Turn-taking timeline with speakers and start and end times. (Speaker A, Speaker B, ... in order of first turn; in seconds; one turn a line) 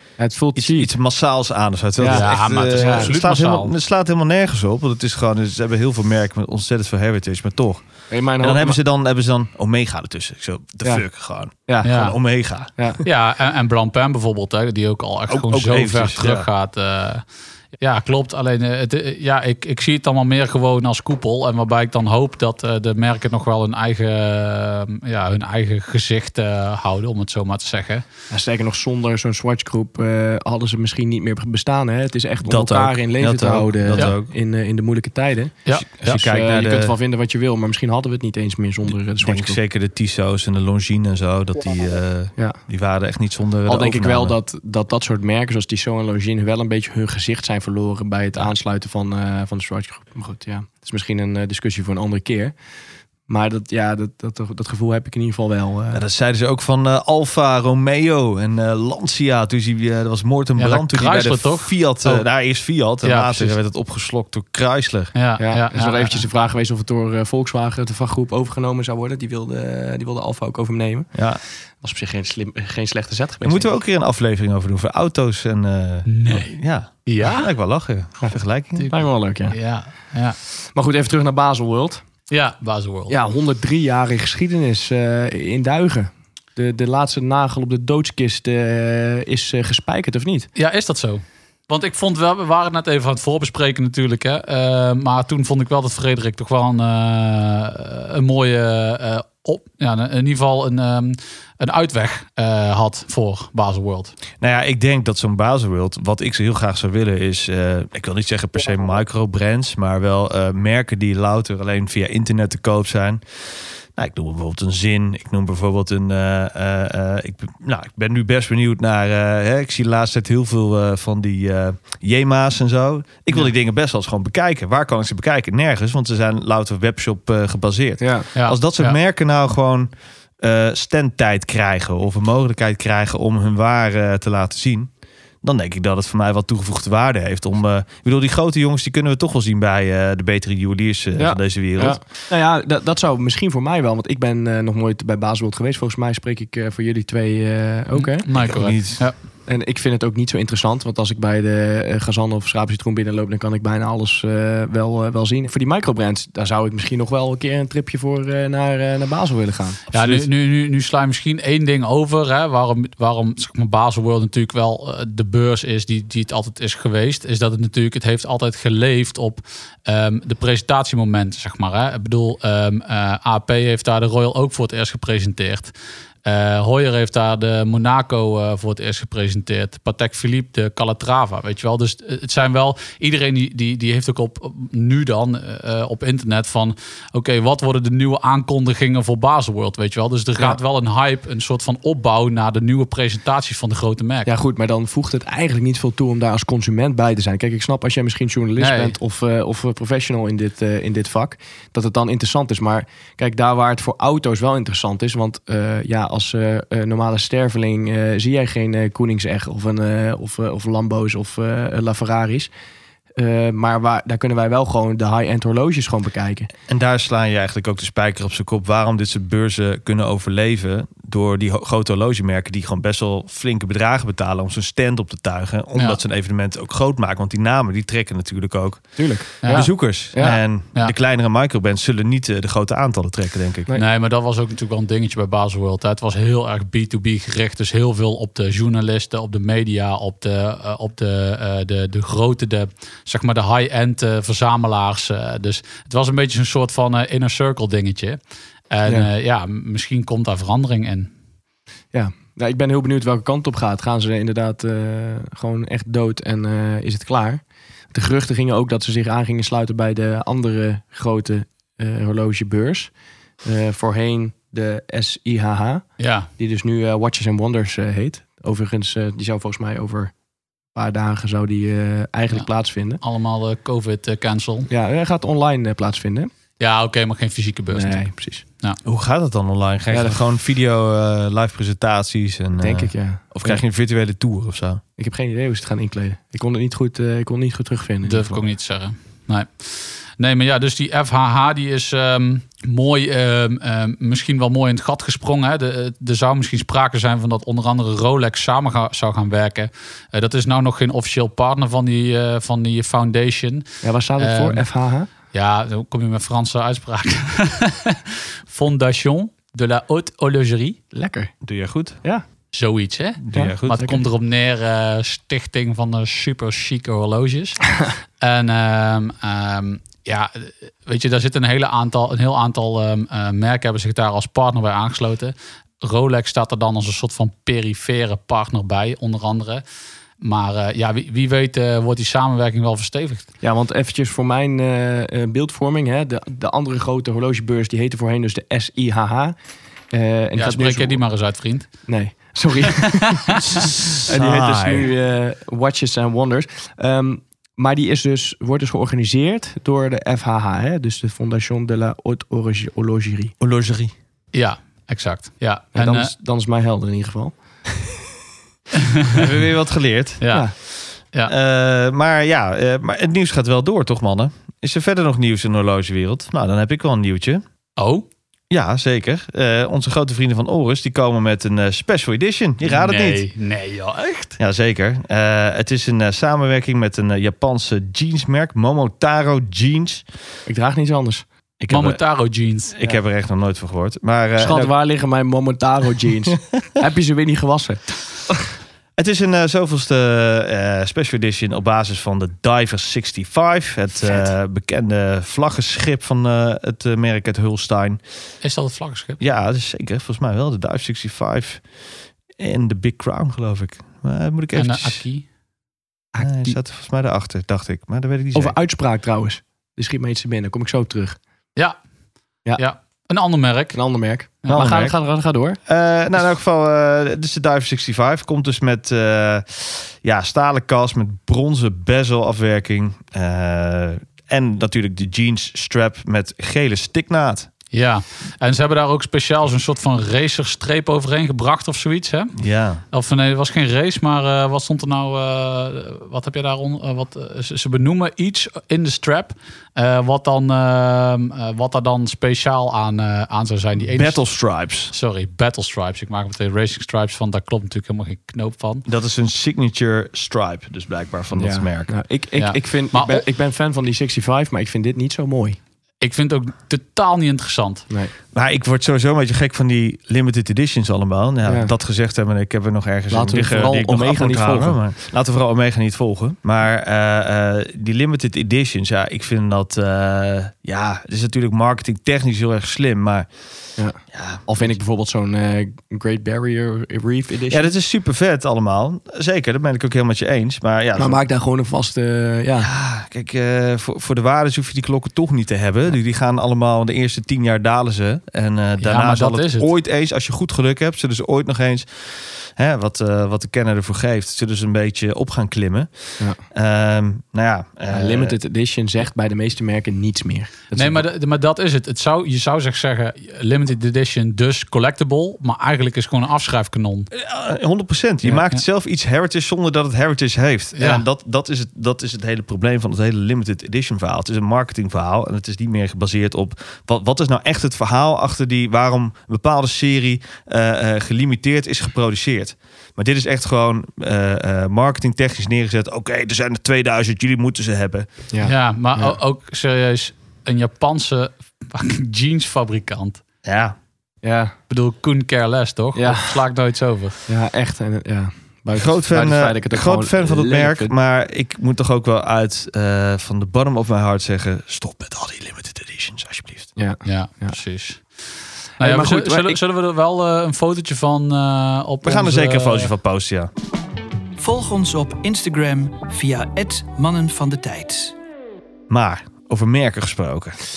Speaker A: 0.2-0.9
Speaker B: 0.5-12.7
Speaker A: 2.0-3.1
Speaker C: 2.1-3.7
Speaker A: 8.1-8.8
Speaker A: 10.8-11.1
Speaker A: 11.7-11.9
Speaker C: 11.8-12.1
Speaker A: 12.8-13.0
Speaker C: 13.0-17.2
Speaker B: 15.3-16.5
Speaker C: 17.8-28.1
Speaker A: 28.3-39.6
Speaker B: 32.4-34.3
Speaker C: 35.6-36.2
Speaker B: 35.8-36.9
Speaker B: 39.2-44.4
Speaker A: 43.7-52.5
Speaker A: 53.3-56.0
Speaker B: 55.9-65.1
Speaker C: 60.6-62.2
Speaker C: 63.0-63.6
Speaker C: 65.1-66.2
Speaker A: 65.4-71.3
Speaker B: 71.1-71.4
Speaker A: 71.8-73.8
Speaker B: 73.4-78.9
Speaker C: 76.1-77.5
Speaker A: 78.9-79.6
Speaker C: 79.5-80.4
Speaker A: 80.7-82.0
Speaker C: 82.3-83.2
Speaker A: 83.1-90.5
Speaker C: 90.6-104.2
Speaker B: 104.4-134.9
Speaker A: 128.0-128.3
Speaker C: 128.3-129.0
Speaker B: 135.4-142.0
Speaker A: 141.2-148.5
Speaker C: 147.9-149.2
Speaker B: 148.3-149.1
Speaker A: 149.5-159.8
Speaker B: 159.9-160.3
Speaker C: 159.9-175.7
Speaker C: 176.2-194.3
Speaker A: 194.2-212.5
Speaker C: 198.6-198.9
Speaker A: 213.2-216.5
Speaker B: 216.7-233.7
Speaker C: 225.8-226.0
Speaker A: 229.0-230.4
Speaker C: 229.4-230.9
Speaker C: 233.7-248.2
Speaker C: 248.7-251.1
Speaker A: 251.9-262.9
Speaker A: 263.4-270.1
Speaker C: 266.0-266.3
Speaker A: 270.7-273.0
Speaker C: 273.0-274.7
Speaker A: 274.7-276.3
Speaker C: 276.6-278.1
Speaker A: 277.7-278.4
Speaker B: 278.8-284.8
Speaker A: 279.9-280.2
Speaker A: 282.6-283.6
Speaker A: 285.0-288.4
Speaker C: 288.0-303.7
Speaker A: 303.8-305.1
Speaker C: 304.2-304.7
Speaker C: 305.3-310.8
Speaker A: 310.9-311.3
Speaker B: 311.4-312.0
Speaker C: 312.5-329.6
Speaker B: 313.2-313.8
Speaker A: 313.3-314.0
Speaker C: 330.2-333.3
Speaker A: 333.4-339.3
Speaker A: 339.9-341.0
Speaker C: 340.4-341.7
Speaker A: 341.9-343.4
Speaker B: 343.5-344.9
Speaker A: 344.0-353.3
Speaker B: 353.4-353.9
Speaker C: 354.3-356.1
Speaker A: 355.8-357.3
Speaker C: 358.8-359.2
Speaker B: 359.1-360.2
Speaker C: 360.2-360.5
Speaker B: 361.2-367.4
Speaker C: 367.8-368.1
Speaker B: 368.5-373.2
Speaker C: 372.6-374.4
Speaker B: 374.4-380.0
Speaker A: 380.5-381.2
Speaker B: 381.6-382.0
Speaker C: 381.7-382.7
Speaker B: 382.7-384.7
Speaker A: 384.4-388.4
Speaker B: 389.0-398.0
Speaker C: 398.4-399.2
Speaker B: 399.2-401.6
Speaker B: 402.4-405.0
Speaker C: 404.5-405.2
Speaker A: 406.1-406.6
Speaker B: 406.2-408.5
Speaker A: 408.3-411.2
Speaker C: 412.6-413.8
Speaker A: 413.7-415.6
Speaker B: 414.5-414.9
Speaker B: 415.7-427.5
Speaker C: 427.7-432.3
Speaker B: 432.4-432.8
Speaker C: 432.9-444.2
Speaker B: 443.9-444.9
Speaker C: 444.9-448.8
Speaker B: 448.9-451.9
Speaker A: 451.3-455.6
Speaker C: 452.4-453.2
Speaker C: 456.0-457.9
Speaker B: 458.3-473.3
Speaker A: 461.4-461.7
Speaker A: 463.1-464.8
Speaker A: 473.8-477.7
Speaker B: 474.1-474.8
Speaker B: 477.5-481.2
Speaker A: 480.9-482.7
Speaker B: 482.6-498.4
Speaker C: 488.8-489.7
Speaker A: 497.9-501.0
Speaker C: 500.8-507.1
Speaker B: 507.1-528.1
Speaker C: 508.2-508.6
Speaker C: 510.8-511.0
Speaker A: 528.3-529.2
Speaker C: 528.4-533.2
Speaker B: 533.4-533.8
Speaker A: 534.2-534.5
Speaker C: 534.7-537.2
Speaker A: 536.0-536.4
Speaker A: 537.3-540.9
Speaker B: 538.7-546.7
Speaker A: 546.8-547.6
Speaker C: 547.0-548.0
Speaker C: 548.8-552.9
Speaker A: 548.8-549.6
Speaker B: 552.0-553.5
Speaker D: 554.4-558.1
Speaker B: 558.9-560.6